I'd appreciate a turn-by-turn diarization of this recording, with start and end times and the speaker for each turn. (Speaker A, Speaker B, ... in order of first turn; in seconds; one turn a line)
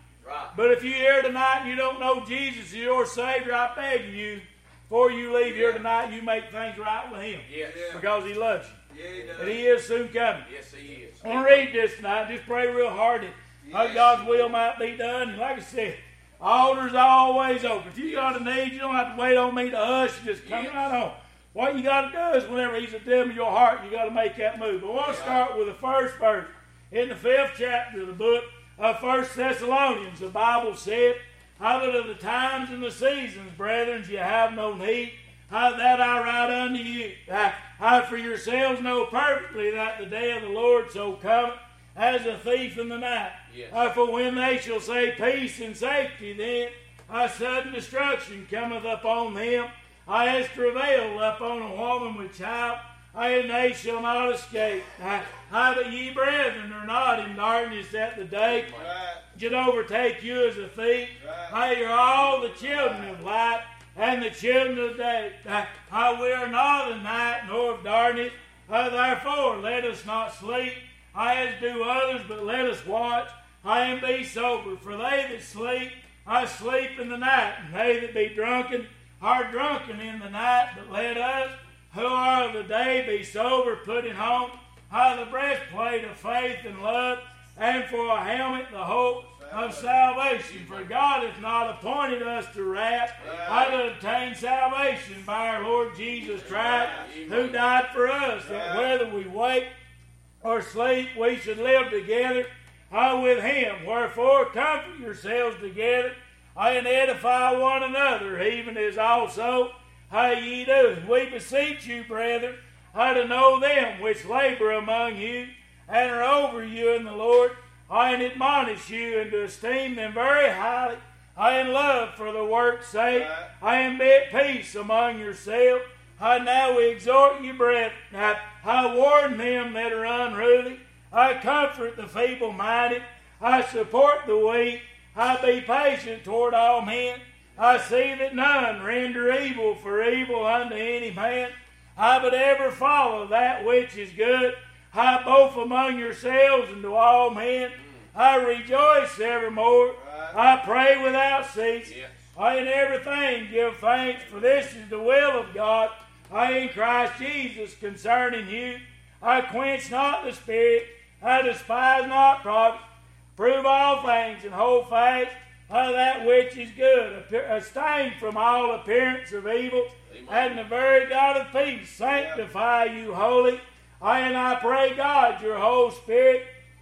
Speaker A: 0.2-0.5
Speaker B: 0.5-8.8
Speaker C: 5.4-5.8
Speaker A: 7.5-8.0
Speaker C: 7.6-8.0
Speaker C: 8.9-9.6
Speaker B: 9.4-10.5
Speaker A: 10.4-11.7
Speaker B: 11.2-58.7
Speaker C: 13.6-14.4
Speaker A: 20.4-20.8
Speaker C: 25.0-25.4
Speaker A: 25.1-25.4
Speaker A: 43.5-43.8
Speaker A: 58.4-59.0
Speaker C: 58.7-59.2
Speaker B: 59.3-99.7
Speaker C: 61.2-61.6
Speaker C: 62.2-63.2
Speaker C: 89.3-90.0
Speaker A: 90.4-90.9
Speaker C: 93.2-93.8
Speaker C: 96.4-97.1
Speaker A: 96.4-97.6
Speaker C: 98.4-99.0
Speaker B: 100.4-162.8
Speaker C: 123.1-123.5
Speaker C: 137.6-137.8
Speaker C: 149.9-150.4
Speaker A: 151.8-152.2
Speaker B: 163.4-176.5
Speaker A: 170.1-170.6
Speaker C: 172.1-172.4